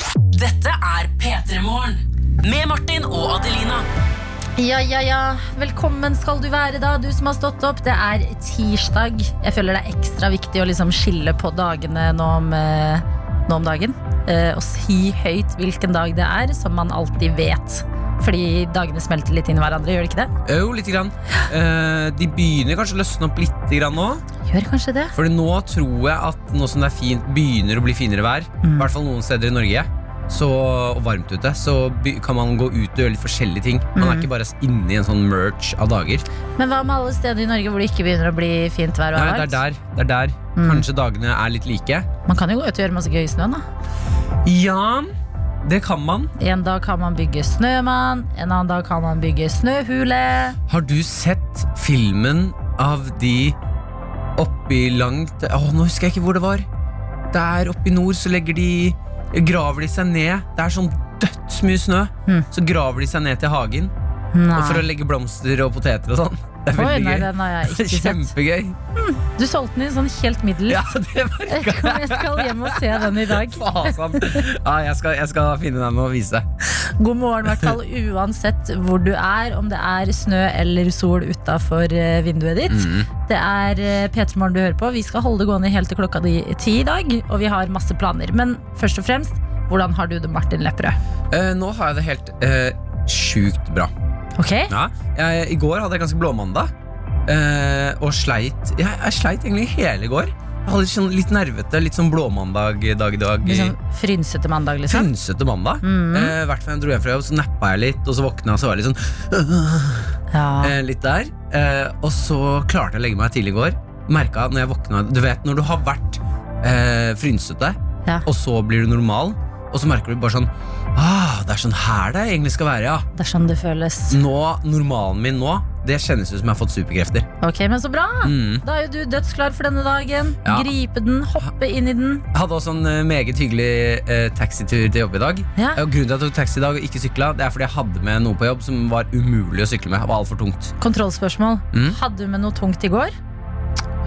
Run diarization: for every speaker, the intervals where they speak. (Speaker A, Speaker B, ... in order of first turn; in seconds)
Speaker A: 0.3-3.9
Speaker B: 4.6-20.3, 24.5-25.1, 28.6-28.9, 34.0-34.3, 36.6-39.6, 40.6-40.9, 42.3-43.6, 46.4-50.6, 64.3-64.8, 66.8-68.3, 69.0-70.8, 71.5-74.4, 76.7-91.0, 94.4-94.7, 103.5-105.1, 105.8-106.3, 110.3-110.8, 123.2-124.2, 127.4-132.3, 140.8-143.1
Speaker C: 20.4-24.2, 25.1-36.3, 39.1-42.1, 44.5-45.1, 45.6-46.3, 50.7-53.6, 54.4-56.7, 57.3-63.9, 64.5-68.8, 70.7-76.5, 82.7-83.1, 91.3-93.9, 94.7-96.7, 97.3-103.8, 104.9-123.0, 124.1-127.3, 128.2-128.6, 130.4-130.7, 132.3-140.7, 141.7-142.0